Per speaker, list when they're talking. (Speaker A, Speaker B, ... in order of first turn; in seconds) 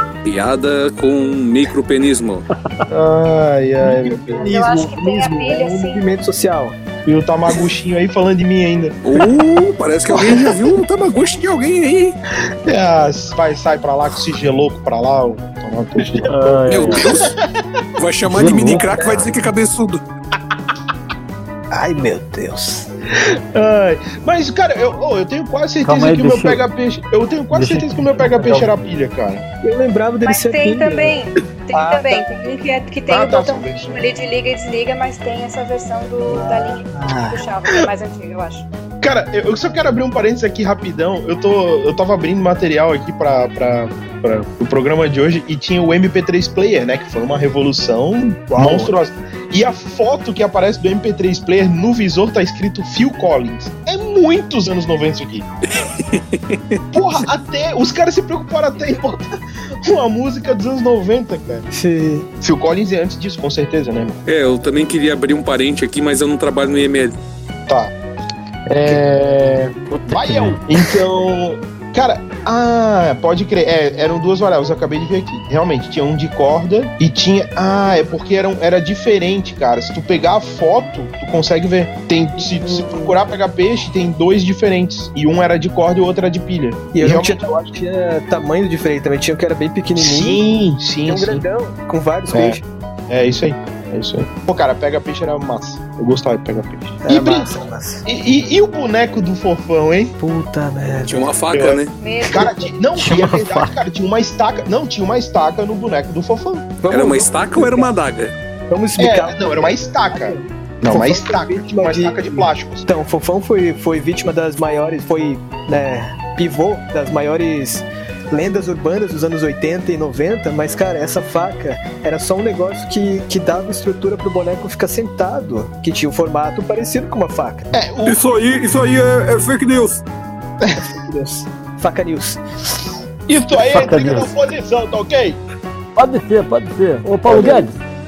Speaker A: 0.2-2.5, 9.0-12.1, 16.7-17.3, 18.0-20.0, 55.7-56.8, 64.2-67.2, 101.0-101.9, 106.9-108.3, 128.0-130.0
Speaker B: 2.9-4.5, 7.0-8.9, 10.2-10.5, 12.7-16.3, 23.5-29.4, 33.1-34.0, 39.0-55.5, 56.9-59.3, 59.8-61.6, 62.4-64.2, 67.7-67.9, 68.7-87.4, 90.0-91.4, 92.3-97.5, 98.0-100.1, 101.5-106.7, 109.0-112.8, 127.7-128.2, 133.3-135.4, 137.3-137.5
Speaker C: 3.8-6.8, 16.0-16.3, 18.7-19.3, 21.7-22.9, 29.6-31.2, 31.7-32.3, 36.3-37.4, 48.5-48.9, 61.7-62.3, 82.4-83.2, 86.9-90.4, 91.0-92.6, 97.0-98.0, 100.2-101.3, 106.8-107.9, 108.7-127.7, 130.8-132.8
Speaker D: 4.5-6.0, 30.2-38.6, 102.0-102.6
Speaker E: 16.3-17.1, 18.2-19.0, 25.8-26.6, 27.5-28.9, 69.9-70.6, 103.0-103.7, 133.6-134.3, 135.9-137.8